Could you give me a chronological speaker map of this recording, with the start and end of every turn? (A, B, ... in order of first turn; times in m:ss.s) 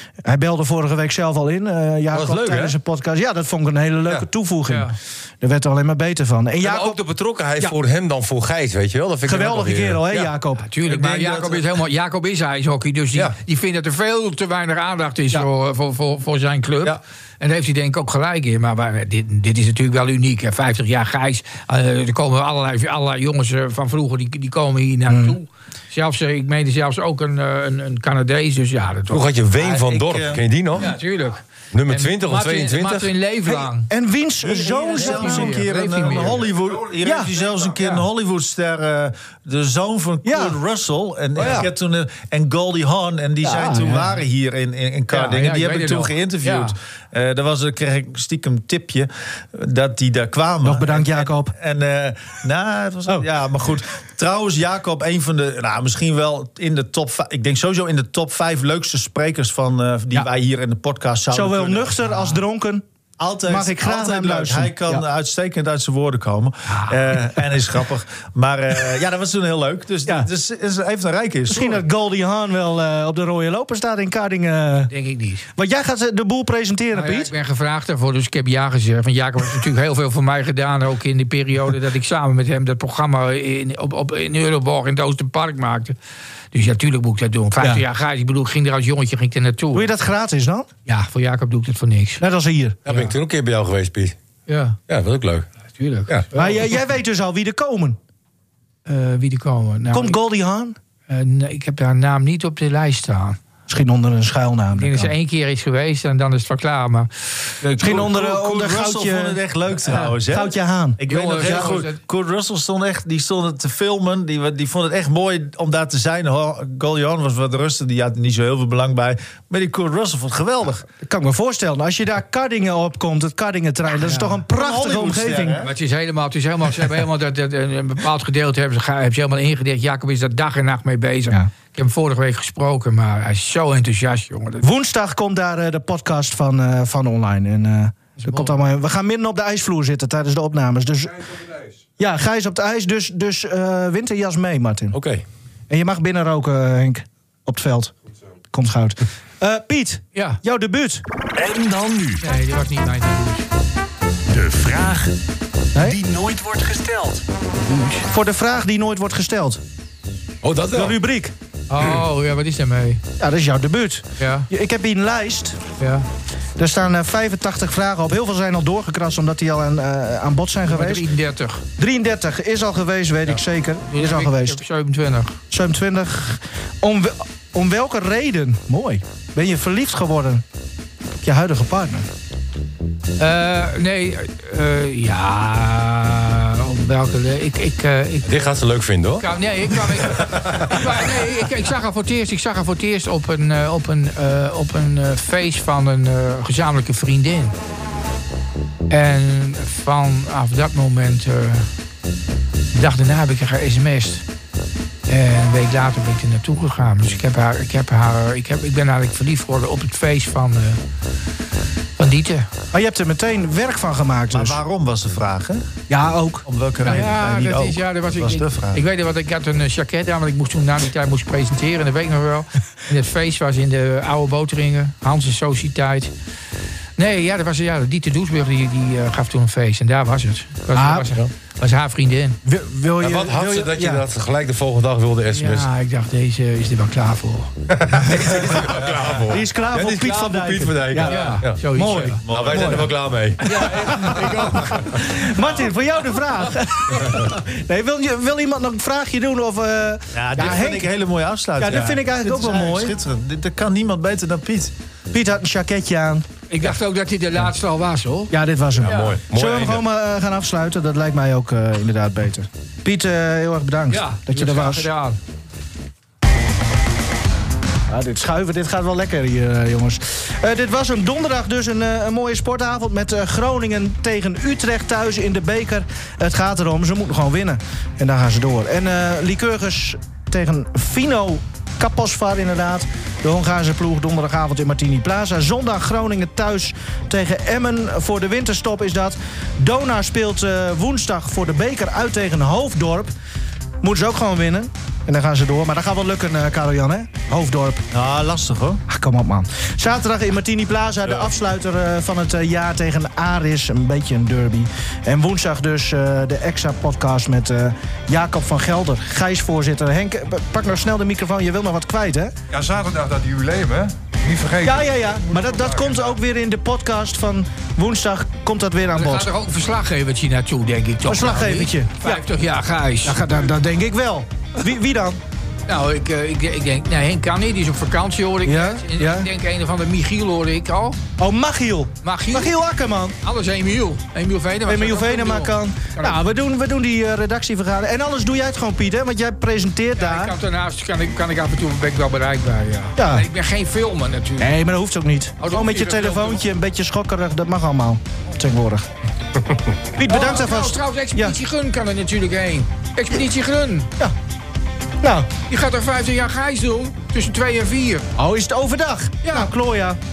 0:00.2-0:07.0 A
0:02.1-0:02.8 B
0:04.7-0:05.0 C
0:06.6-0:10.3 B
0:09.3-0:10.7 A
0:10.6-0:29.3 C
0:10.9-0:11.5 B
0:11.2-0:11.6 D
0:25.1-0:25.4 A
0:29.1-0:30.9 B
0:29.6-0:30.4 D
0:30.8-0:33.9 C
0:31.7-0:33.1 B
0:33.9-0:35.6 A
0:34.4-1:02.0 D
0:35.0-0:36.5 C
0:37.0-0:37.3 A
0:37.8-0:38.0 C
0:40.2-0:40.6 A
0:41.4-0:41.7 B
0:43.4-0:44.1 A
0:45.1-0:46.8 C
0:50.6-0:51.5 A
1:01.3-1:02.8 A
1:02.1-1:02.4 C
1:03.2-1:11.8 D
1:03.5-1:05.0 A
1:06.7-1:07.0 C
1:11.5-1:14.9 A
1:14.9-1:15.5 C
1:15.6-1:17.3 A
1:16.9-1:26.0 C
1:26.5-1:29.9 C
1:29.7-1:30.7 A
1:30.9-1:32.2 C
1:32.2-1:32.8 A
1:32.9-1:34.2 B
1:32.9-1:33.1 C
1:34.5-1:34.8 C
1:34.9-1:35.5 B
1:35.8-1:36.6 C
1:36.3-1:38.0 A
1:38.9-1:40.2 C
1:39.9-1:40.8 A
1:41.1-1:43.4 C
1:43.7-1:45.1 A
1:44.8-1:47.1 C
1:47.6-2:00.9 D
1:47.8-1:49.4 A
1:50.0-1:51.6 A
1:51.1-1:52.0 C
2:01.0-2:05.6 A
2:04.0-2:04.4 C
2:04.5-2:05.7 D
2:05.6-2:14.7 C
2:14.6-2:21.4 A
2:18.2-2:18.6 C
2:22.0-2:25.0 A
2:24.9-2:25.2 B
2:25.7-2:27.9 A
2:28.5-2:31.0 A
2:30.2-2:30.4 C
2:31.4-2:32.2 E
2:32.2-2:33.5 C
2:34.3-2:35.2 E
2:35.8-2:36.0 A
2:35.8-2:37.2 E
2:37.7-2:38.1 C
2:38.0-2:39.6 A
2:40.4-2:41.0 B
2:40.7-2:41.3 A
2:41.7-2:43.0 C
2:43.2-2:45.6 A
2:44.2-2:44.5 C
2:45.8-2:46.1 C
2:46.6-2:51.1 A
2:50.6-2:51.6 C
2:51.8-2:54.6 A
2:53.3-2:55.4 C
2:55.5-3:00.4 A
3:01.2-3:02.1 A
3:03.2-3:08.5 C
3:08.2-3:10.8 B
3:09.2-3:17.6 C
3:18.9-3:21.7 C
3:22.7-3:24.2 C
3:25.1-3:30.8 C
3:32.0-3:32.5 C
3:32.7-3:34.6 A
3:34.3-3:35.6 D
3:35.9-3:37.0 A
3:36.5-3:38.8 D
3:36.8-3:46.1 C
3:47.0-3:52.4 C
3:50.7-3:51.1 A
3:52.4-3:54.0 A
3:53.0-3:55.7 B
3:55.3-3:58.1 C
3:57.7-4:01.6 B
3:58.1-4:02.9 A
4:01.1-4:02.2 C
4:01.9-4:02.9 D
4:02.3-4:04.8 B
4:03.4-4:10.9 A
4:03.4-4:05.0 C
4:10.1-4:14.7 D
4:11.6-4:13.0 A
4:15.1-4:16.3 A
4:16.5-4:19.2 C
4:18.3-4:24.9 A
4:18.8-4:19.8 B
4:23.9-4:25.2 C
4:27.9-4:53.1 A
4:53.8-4:57.8 A
4:57.9-4:58.8 D
4:58.9-5:12.4 A
5:12.5-5:16.2 F
5:14.6-5:19.3 A
5:19.0-5:23.2 C
5:21.1-5:22.2 A
5:23.0-5:25.2 A
5:25.7-5:31.0 C
5:28.4-5:29.3 A
5:31.2-5:33.2 A
5:32.0-5:32.5 C
5:33.2-5:36.2 C
5:34.7-5:40.3 A
5:40.0-5:44.6 C
5:43.0-5:43.3 A
5:44.4-5:48.9 A
5:45.4-5:46.4 C
5:50.0-5:51.4 A
5:50.0-5:53.9 C
5:55.0-5:55.3 A
5:55.5-5:58.1 C
5:58.2-6:00.0 A
5:59.2-5:59.5 C